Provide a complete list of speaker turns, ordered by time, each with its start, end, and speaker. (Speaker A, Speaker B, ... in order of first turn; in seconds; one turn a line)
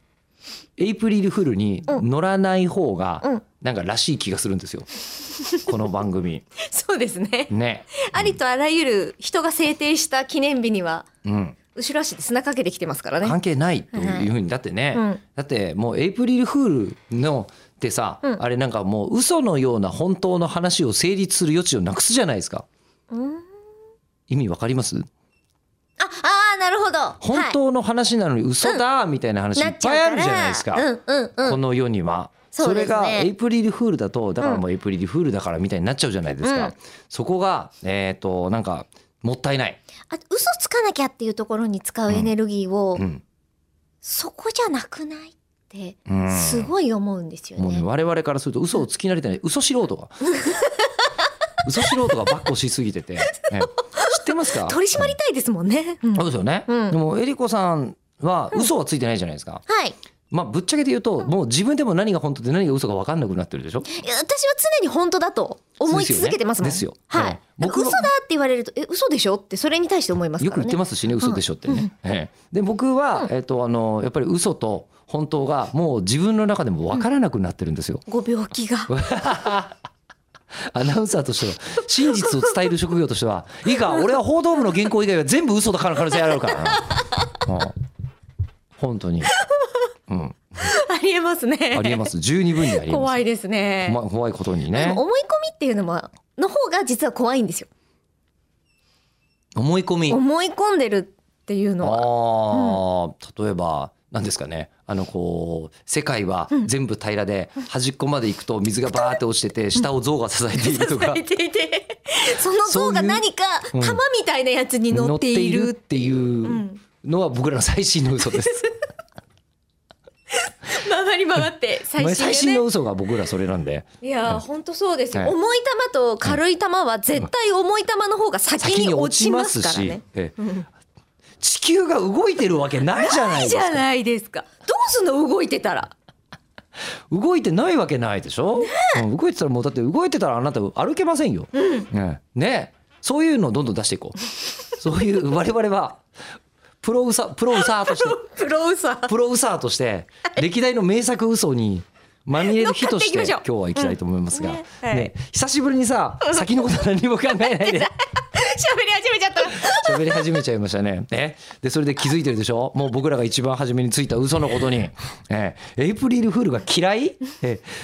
Speaker A: 0.8-4.9
Speaker A: 5.6-6.4
Speaker B: 6.6-11.1
Speaker A: 7.5-8.4
Speaker A: 11.2-11.6
Speaker B: 11.7-13.4
Speaker A: 13.2-22.6
Speaker B: 13.9-14.3
Speaker B: 14.9-15.2
Speaker B: 23.1-23.4
Speaker A: 24.3-25.1
Speaker B: 26.0-27.6
Speaker A: 27.2-30.9
Speaker B: 29.5-31.6
Speaker A: 31.4-39.8
Speaker B: 32.5-33.3
Speaker B: 36.4-36.7
Speaker B: 40.1-43.0
Speaker A: 43.0-43.2
Speaker B: 44.0-47.8
Speaker A: 46.1-46.7
Speaker A: 47.6-50.3
Speaker B: 50.3-51.0
Speaker A: 51.6-55.1
Speaker B: 53.9-57.0
Speaker A: 56.1-59.6
Speaker B: 59.7-60.0
Speaker A: 60.3-63.9
Speaker B: 63.9-71.9
Speaker A: 65.8-68.1
Speaker A: 70.4-78.0
Speaker B: 78.1-78.9
Speaker A: 78.9-79.7
Speaker A: 80.7-87.7
Speaker A: 88.8-89.3
Speaker A: 90.1-90.4
Speaker B: 90.6-92.1
Speaker A: 91.7-93.2
Speaker B: 92.6-94.0
Speaker A: 93.8-95.0
Speaker B: 94.7-97.7
Speaker A: 99.5-100.2
Speaker B: 100.1-102.8
Speaker A: 101.8-111.2
Speaker B: 108.9-109.2
Speaker B: 110.5-116.8
Speaker A: 112.6-114.0
Speaker A: 114.9-118.6
Speaker B: 118.2-118.7
Speaker B: 120.3-122.6
Speaker A: 122.0-124.4
Speaker B: 124.0-130.7
Speaker A: 128.6-130.4
Speaker A: 131.4-133.8
Speaker B: 133.0-135.9
Speaker A: 137.1-144.2
Speaker B: 138.6-138.9
Speaker B: 141.5-141.9
Speaker A: 144.7-146.0
Speaker A: 146.8-148.2
Speaker B: 147.6-149.1
Speaker A: 149.1-157.9
Speaker B: 152.4-155.1
Speaker B: 156.2-156.7
Speaker B: 157.3-160.4
Speaker A: 159.5-167.7